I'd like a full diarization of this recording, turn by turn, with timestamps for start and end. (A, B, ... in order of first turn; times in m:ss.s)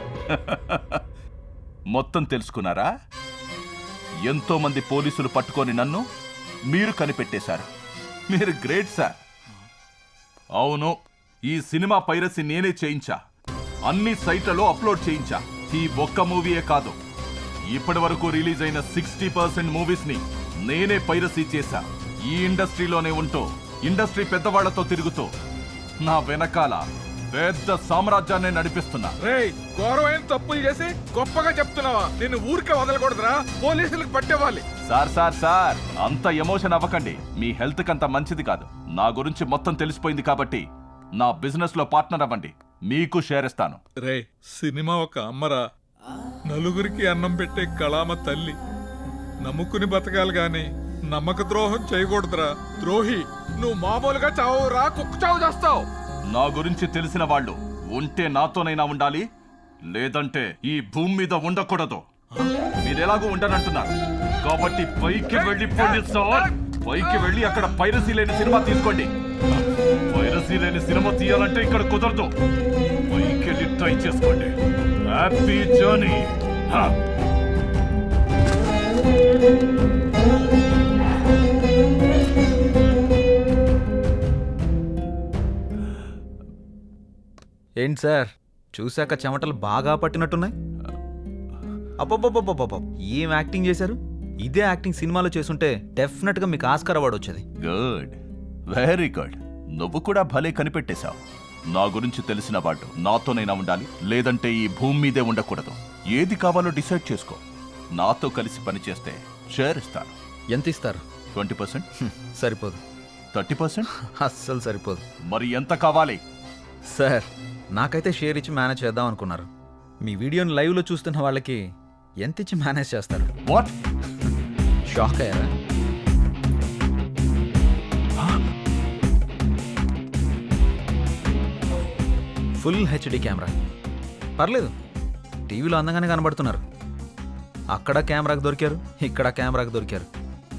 0:00.3-0:01.0 A
0:01.9-0:02.9 A
0:04.3-0:06.0 A
0:06.7-0:07.7 A
0:08.3-0:09.2 A
0:10.6-0:10.9 A
0:11.5-0:13.2 A
0:13.9-0:17.0 A
0:17.7-0:25.3 A
0:26.0-0:29.2 A
0:29.2-0:34.6 B
0:34.8-0:40.6 A
0:41.2-0:43.8 A
0:44.0-0:45.7 B
0:46.5-0:48.6 B
0:49.4-0:55.9 B
0:56.3-0:59.2 A
0:59.9-1:02.0 A
1:02.8-1:09.1 A
1:05.4-1:06.5 B
1:10.1-1:12.3 A
1:13.1-1:14.6 A
1:15.1-1:16.9 A
1:27.8-1:30.5 C
1:32.0-1:37.4 C
1:37.6-1:38.2 A
1:38.7-1:41.2 A
1:41.7-1:47.4 A
1:48.0-1:50.1 A
1:50.5-1:51.0 C
1:51.4-1:51.8 A
1:52.0-1:52.8 C
1:53.3-1:53.9 A
1:54.0-1:55.0 C
1:55.3-1:56.2 A
1:56.9-1:59.5 C
2:00.0-2:01.6 C
2:02.2-2:03.3 C
2:03.5-2:03.7 A
2:04.9-2:05.5 C
2:12.6-2:13.5 C
2:14.4-2:14.7 C
2:15.5-2:16.6 C
2:17.7-2:20.1 C